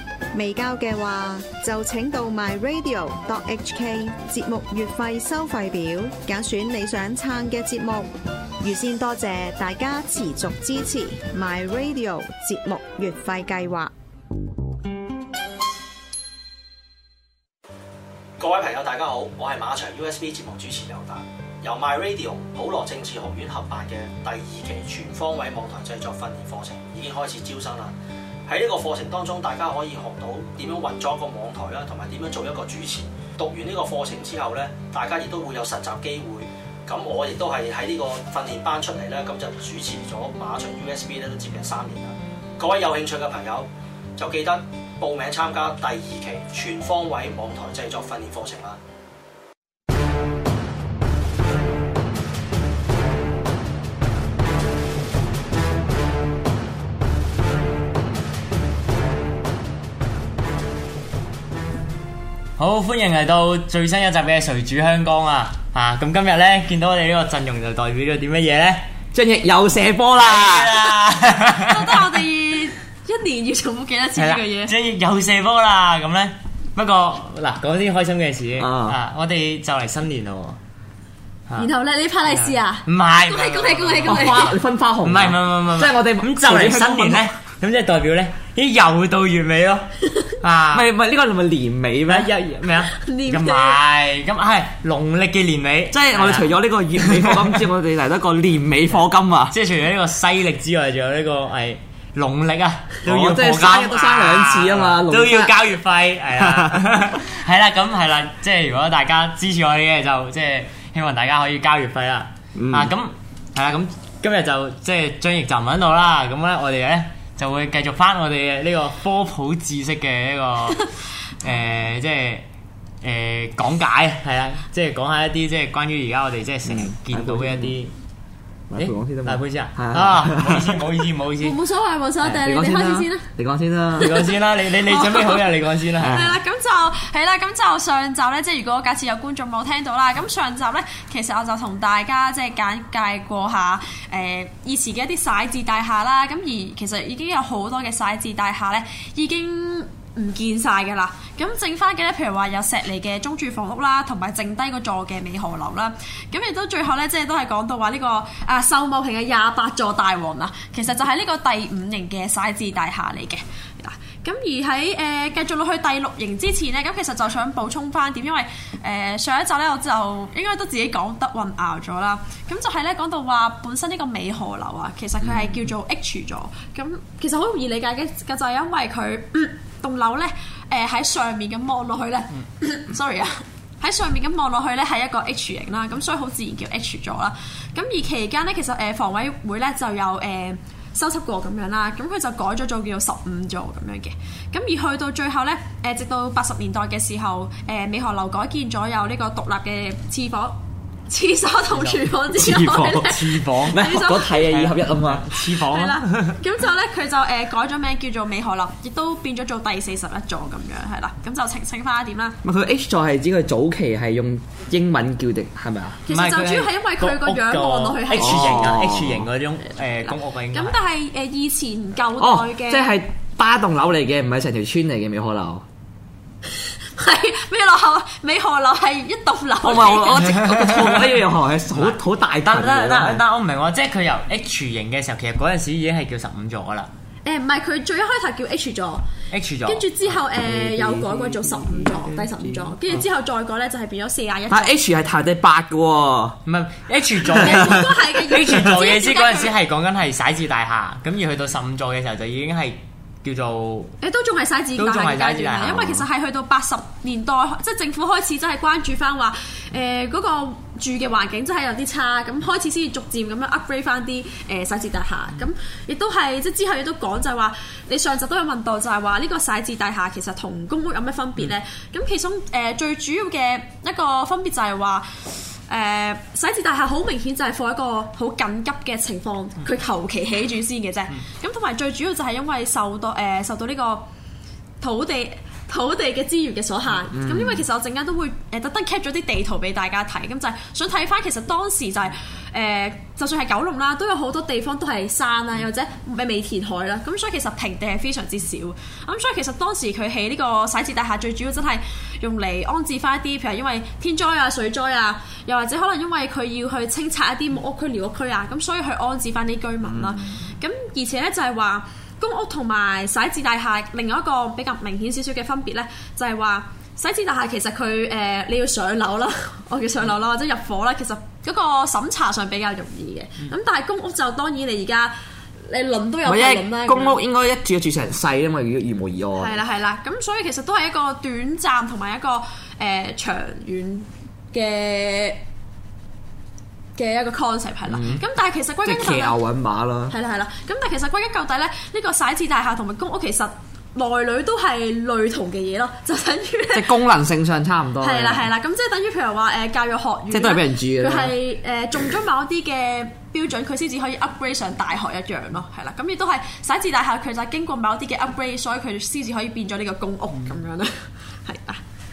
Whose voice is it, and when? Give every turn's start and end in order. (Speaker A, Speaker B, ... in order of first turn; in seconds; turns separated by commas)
Speaker A: 0.3-13.9, Speaker B: 18.4-27.9, Speaker B: 28.5-48.8, Speaker C: 62.6-68.9, Speaker D: 69.1-70.8, Speaker C: 70.2-72.1, Speaker E: 71.6-74.7, Speaker C: 74.1-80.6, Speaker D: 78.6-79.0, Speaker E: 81.5-84.5, Speaker C: 82.3-90.9, Speaker D: 84.0-87.3, Speaker D: 90.7-92.3, Speaker C: 92.1-97.6, Speaker E: 92.9-93.8, Speaker D: 95.9-99.5, Speaker C: 99.5-120.9, Speaker D: 103.0-105.5, Speaker D: 106.4-106.8, Speaker D: 112.5-112.9, Speaker C: 121.4-122.5, Speaker C: 123.0-127.9, Speaker D: 126.7-127.7, Speaker D: 128.7-130.8, Speaker C: 128.8-131.6, Speaker E: 131.4-133.3, Speaker D: 132.2-134.2, Speaker E: 134.0-135.5, Speaker C: 134.0-136.3, Speaker D: 136.0-136.3, Speaker E: 136.0-200.6, Speaker E: 201.1-204.5, Speaker C: 201.7-206.4, Speaker D: 203.7-205.3, Speaker E: 205.5-212.4, Speaker D: 212.4-216.0, Speaker E: 216.1-218.8, Speaker C: 216.1-220.8, Speaker D: 218.2-219.3, Speaker E: 220.1-222.9, Speaker D: 222.2-225.6, Speaker E: 226.6-230.5, Speaker D: 229.6-233.2, Speaker C: 230.2-231.2, Speaker C: 231.7-236.9, Speaker E: 237.2-239.0, Speaker C: 239.3-239.9, Speaker E: 239.6-244.7, Speaker D: 240.2-242.8, Speaker D: 244.5-246.4, Speaker C: 246.4-253.9, Speaker E: 247.3-249.5, Speaker D: 247.4-247.8, Speaker E: 254.0-284.1, Speaker C: 254.8-255.8, Speaker D: 255.7-256.0, Speaker E: 284.8-325.1, Speaker D: 287.1-287.6, Speaker D: 309.8-310.2, Speaker E: 325.6-327.2, Speaker D: 326.2-329.6, Speaker E: 329.4-335.4, Speaker E: 336.9-339.4, Speaker D: 337.9-338.2, Speaker D: 338.8-340.1, Speaker E: 340.1-347.0, Speaker D: 346.7-348.5, Speaker E: 348.0-361.8, Speaker D: 350.3-351.4